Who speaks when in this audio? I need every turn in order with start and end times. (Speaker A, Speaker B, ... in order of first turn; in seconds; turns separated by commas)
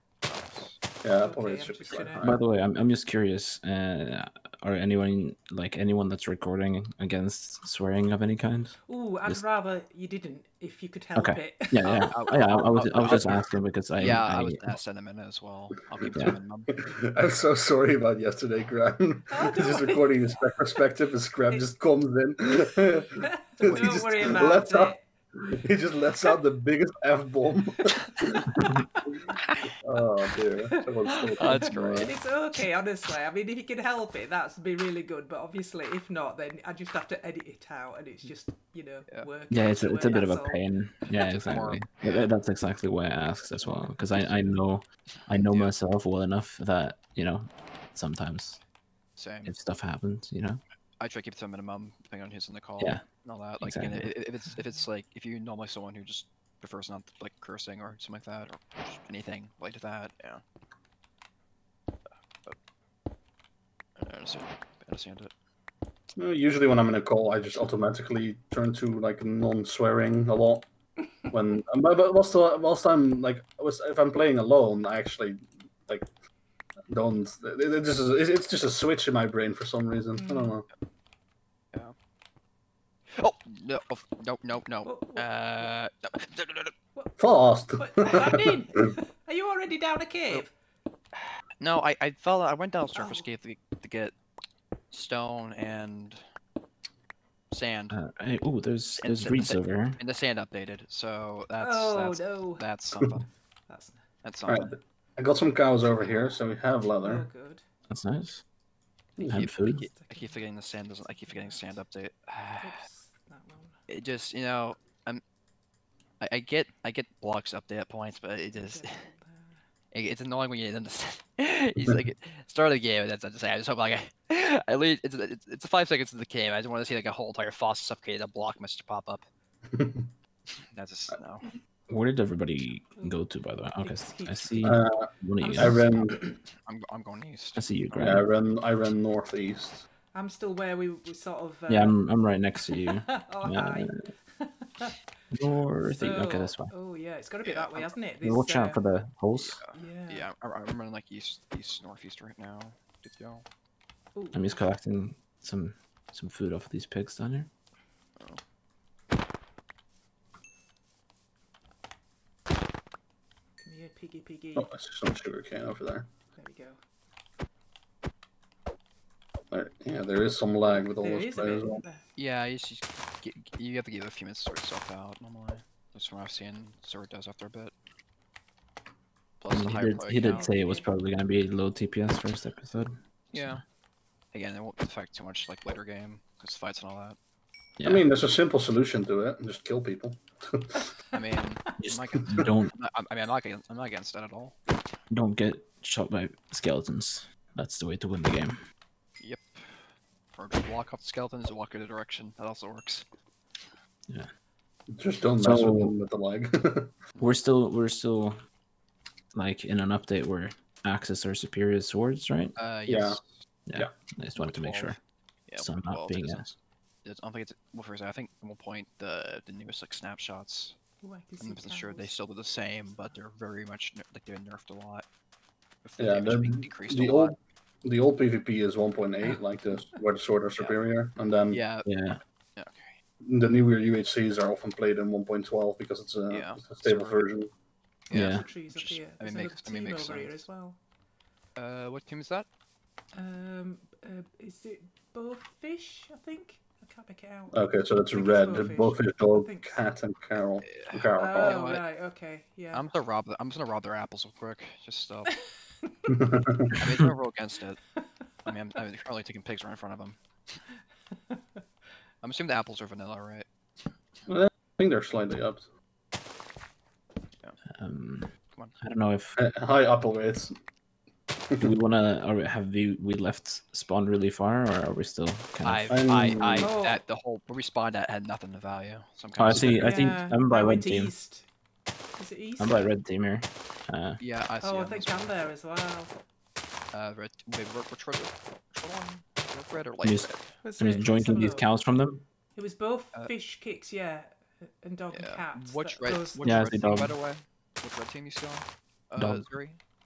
Speaker A: 0.2-0.8, Speaker B: 1.0-2.4, Speaker C: 1.2-2.2, Speaker D: 2.2-9.4, Speaker C: 8.8-12.1, Speaker D: 11.1-14.8, Speaker A: 11.8-13.4, Speaker A: 13.9-16.8, Speaker B: 16.7-32.1, Speaker C: 19.3-20.2, Speaker C: 22.6-25.0, Speaker A: 23.7-24.5, Speaker C: 28.1-29.1, Speaker A: 29.3-29.8, Speaker C: 30.6-40.6, Speaker A: 31.4-32.1, Speaker D: 39.5-48.6, Speaker C: 41.1-41.7, Speaker A: 41.4-42.3, Speaker A: 43.6-44.5, Speaker A: 45.3-45.7, Speaker A: 49.2-49.5, Speaker D: 49.4-50.6, Speaker A: 51.0-60.4, Speaker D: 52.8-53.0, Speaker D: 53.6-54.1, Speaker A: 64.0-65.3, Speaker B: 66.2-70.7, Speaker B: 71.3-76.1, Speaker B: 76.9-80.7, Speaker C: 80.2-80.5, Speaker A: 83.1-86.7, Speaker C: 84.8-85.7, Speaker B: 87.2-88.8, Speaker C: 87.8-90.5, Speaker A: 91.3-94.1, Speaker C: 92.9-93.3, Speaker A: 94.9-96.2, Speaker A: 97.5-98.0, Speaker D: 97.9-100.0, Speaker A: 99.0-103.2, Speaker C: 101.6-102.7, Speaker C: 103.7-104.0, Speaker A: 104.2-104.7, Speaker B: 104.5-107.3, Speaker C: 107.0-107.6, Speaker D: 107.9-108.4, Speaker A: 109.2-112.8, Speaker C: 109.2-111.8, Speaker D: 109.2-109.9, Speaker C: 112.6-113.8, Speaker A: 113.9-115.2, Speaker A: 116.2-119.1, Speaker C: 118.5-119.6, Speaker A: 119.9-129.3, Speaker B: 129.7-130.1, Speaker A: 130.7-131.5, Speaker D: 131.9-135.8, Speaker C: 133.8-134.9, Speaker B: 134.6-136.2, Speaker C: 135.4-136.4, Speaker A: 136.5-138.2, Speaker D: 137.6-138.2, Speaker B: 138.0-139.8, Speaker C: 140.1-142.0, Speaker D: 141.7-143.9, Speaker C: 142.6-145.0, Speaker D: 145.3-146.7, Speaker C: 145.8-148.8, Speaker A: 147.4-147.9, Speaker D: 148.2-149.6, Speaker A: 149.3-153.4, Speaker C: 149.7-150.3, Speaker C: 154.1-154.7, Speaker D: 154.3-157.5, Speaker C: 163.6-164.7, Speaker B: 164.6-166.1, Speaker C: 166.3-166.8, Speaker B: 169.5-171.8, Speaker C: 170.9-172.0, Speaker A: 172.2-177.7, Speaker A: 179.4-180.5, Speaker D: 179.5-183.6, Speaker C: 180.1-180.9, Speaker A: 183.3-183.6, Speaker A: 184.3-187.2, Speaker D: 187.8-188.0, Speaker B: 187.8-190.9, Speaker A: 191.1-194.6, Speaker D: 191.8-192.7, Speaker D: 195.1-198.6, Speaker A: 199.2-203.1, Speaker B: 204.9-206.9, Speaker D: 205.4-205.9, Speaker D: 207.2-208.4, Speaker D: 209.3-212.6, Speaker A: 212.6-213.3, Speaker B: 212.9-213.2, Speaker D: 213.7-215.0, Speaker A: 214.3-215.0, Speaker A: 215.5-220.8, Speaker D: 215.6-216.4, Speaker C: 221.0-222.1, Speaker A: 221.4-225.1, Speaker A: 225.8-227.3, Speaker B: 226.0-231.6, Speaker A: 230.5-230.8, Speaker A: 231.5-232.0, Speaker D: 231.8-232.2, Speaker A: 232.6-233.0, Speaker B: 233.2-237.5, Speaker A: 236.3-237.3, Speaker A: 238.1-240.4, Speaker C: 238.1-240.8, Speaker D: 238.1-238.4, Speaker A: 241.6-242.5, Speaker C: 243.1-249.8, Speaker B: 247.5-251.8, Speaker A: 250.6-251.9, Speaker C: 251.1-252.9, Speaker A: 252.7-255.3, Speaker C: 255.3-256.3, Speaker B: 256.1-256.8, Speaker A: 256.8-257.8, Speaker A: 258.4-260.6, Speaker C: 261.1-261.6, Speaker A: 262.2-263.5, Speaker B: 264.3-265.6, Speaker D: 267.8-269.4, Speaker B: 269.4-270.6, Speaker D: 271.6-276.3, Speaker A: 275.6-280.2, Speaker B: 275.9-276.7, Speaker C: 276.6-277.0, Speaker D: 279.4-281.1, Speaker C: 279.8-281.5, Speaker C: 282.1-282.9, Speaker D: 282.6-284.2, Speaker A: 284.2-285.3, Speaker C: 284.6-286.1, Speaker A: 286.9-290.6, Speaker D: 290.0-292.2, Speaker C: 290.6-291.7, Speaker C: 292.5-297.0, Speaker A: 295.1-299.8, Speaker D: 296.4-297.1, Speaker D: 299.2-299.5